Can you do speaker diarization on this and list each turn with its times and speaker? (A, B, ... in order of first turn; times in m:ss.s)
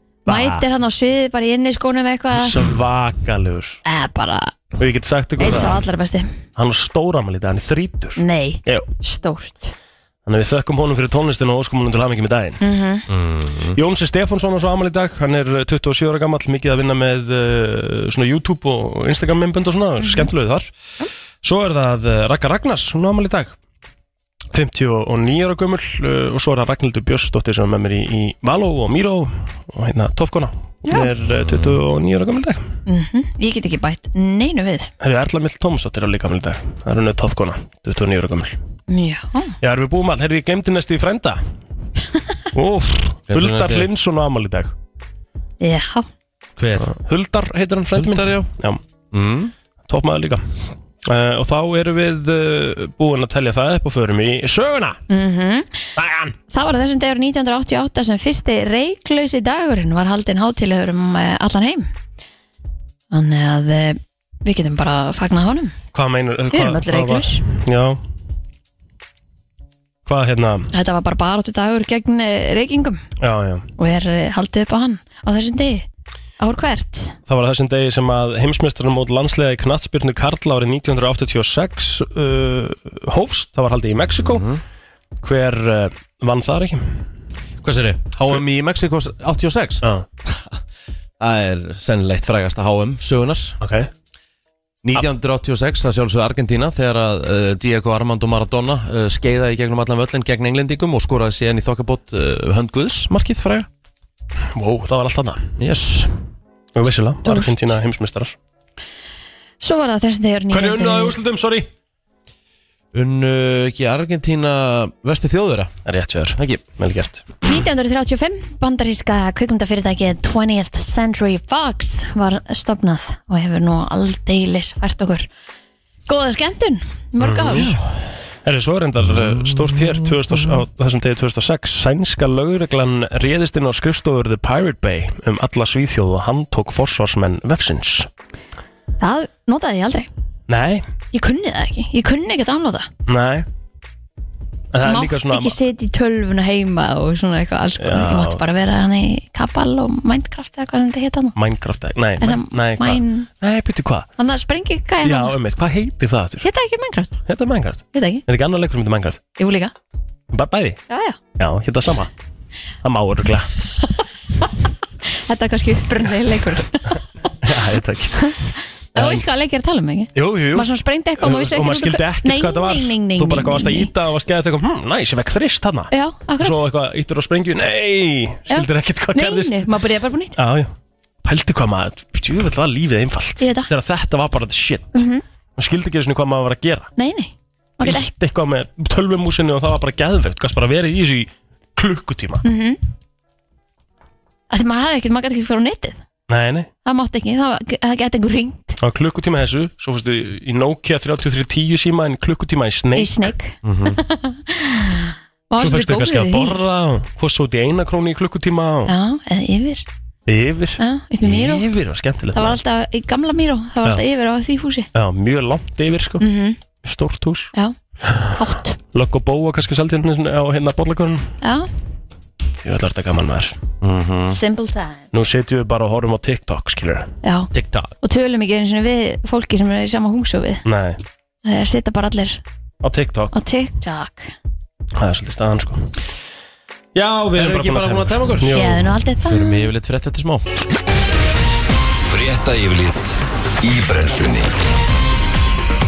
0:00.3-0:00.6 A
0:00.3-0:02.6 B
0:02.3-0:03.8 A
0:03.8-0:04.6 B
0:04.8-0:05.8 A
0:05.4-0:06.3 B
0:06.6-0:08.9 A
0:08.2-0:09.7 B
0:10.3-0:12.6 A
0:12.6-0:13.0 B
0:13.1-0:13.8 C
0:13.8-0:20.7 A
0:20.0-0:20.3 B
0:21.4-0:23.6 A
0:24.5-0:32.6 A
0:31.3-0:31.8 C
0:32.9-0:34.9 B
0:35.0-0:38.6 A
0:38.9-0:39.6 B
0:39.6-0:41.4 A
0:42.5-0:44.7 A
0:43.3-0:43.9 C
0:45.6-0:46.1 B
0:46.6-0:46.9 C
0:46.8-0:48.8 A
0:48.0-0:48.5 C
0:49.1-0:49.5 C
0:49.9-0:50.5 A
0:51.0-0:55.0 A
0:55.1-0:55.8 B
0:56.0-0:56.4 A
0:56.5-1:01.9 B
1:03.1-1:05.8 B
1:05.9-1:08.0 A
1:06.5-1:07.4 B
1:10.1-1:10.7 A
1:10.7-1:13.0 B
1:13.2-1:13.7 A
1:13.8-1:15.9 B
1:16.4-1:17.2 B
1:17.3-1:24.5 A
1:24.2-1:24.6 C
1:25.2-1:27.0 A
1:27.6-1:30.6 C
1:31.2-1:33.6 C
1:33.6-1:33.9 A
1:34.8-1:43.7 C
1:44.6-1:45.5 A
1:45.6-1:46.2 C
1:46.8-1:48.4 A
1:47.2-1:47.5 B
1:49.6-1:51.2 B
1:50.5-1:51.7 A
1:52.9-1:55.7 C
1:55.9-1:57.2 A
1:56.4-1:56.6 C
1:57.4-2:05.3 B
2:06.1-2:07.8 B
2:07.2-2:07.8 A
2:07.5-2:07.8 C
2:08.4-2:18.1 A
2:09.1-2:10.4 C
2:19.0-2:20.1 B
2:20.5-2:20.8 A
2:21.1-2:22.9 B
2:23.1-2:23.5 A
2:24.7-2:25.6 A
2:24.8-2:31.4 B
2:27.8-2:28.4 A
2:31.4-2:34.1 A
2:32.2-2:33.3 B
2:34.2-2:35.3 B
2:35.0-2:36.5 A
2:36.4-2:37.2 B
2:37.3-2:39.2 A
2:37.9-2:38.2 B
2:39.4-2:39.7 B
2:40.3-2:40.8 A
2:40.9-2:41.2 B
2:41.4-2:42.1 A
2:42.8-2:43.5 A
2:45.1-2:47.3 B
2:47.4-2:49.2 A
2:49.0-2:53.9 B
2:50.2-2:59.7 A
2:55.9-2:56.6 B
2:58.5-3:00.4 B
3:00.4-3:00.7 A
3:01.2-3:05.0 A
3:03.4-3:03.7 B
3:04.9-3:05.2 B
3:05.6-3:06.9 A
3:07.0-3:08.1 B
3:07.8-3:12.4 A
3:12.4-3:12.8 B
3:14.5-3:16.0 B
3:16.3-3:16.7 A
3:16.8-3:18.8 B
3:18.8-3:23.3 A
3:23.0-3:26.6 B
3:23.6-3:24.0 C
3:25.6-3:28.9 A
3:28.9-3:29.8 B
3:30.3-3:32.6 A
3:30.8-3:31.7 B
3:32.3-3:34.9 B
3:34.9-3:36.2 A
3:36.2-3:36.6 B
3:36.8-3:37.5 A
3:38.3-3:38.8 B
3:38.9-3:41.3 A
3:41.4-3:41.7 B
3:42.6-3:43.6 A
3:43.8-3:44.4 C
3:44.3-3:45.1 B
3:45.1-3:47.1 A
3:47.2-3:47.5 B
3:47.5-3:47.9 C
3:48.0-3:50.6 B
3:50.6-3:51.0 A
3:51.4-3:52.4 B
3:52.8-3:53.3 A
3:53.3-3:54.3 B
3:55.0-3:55.9 A
3:57.0-3:58.9 A
3:57.3-4:00.6 C
3:58.6-3:59.7 B
4:02.1-4:04.6 C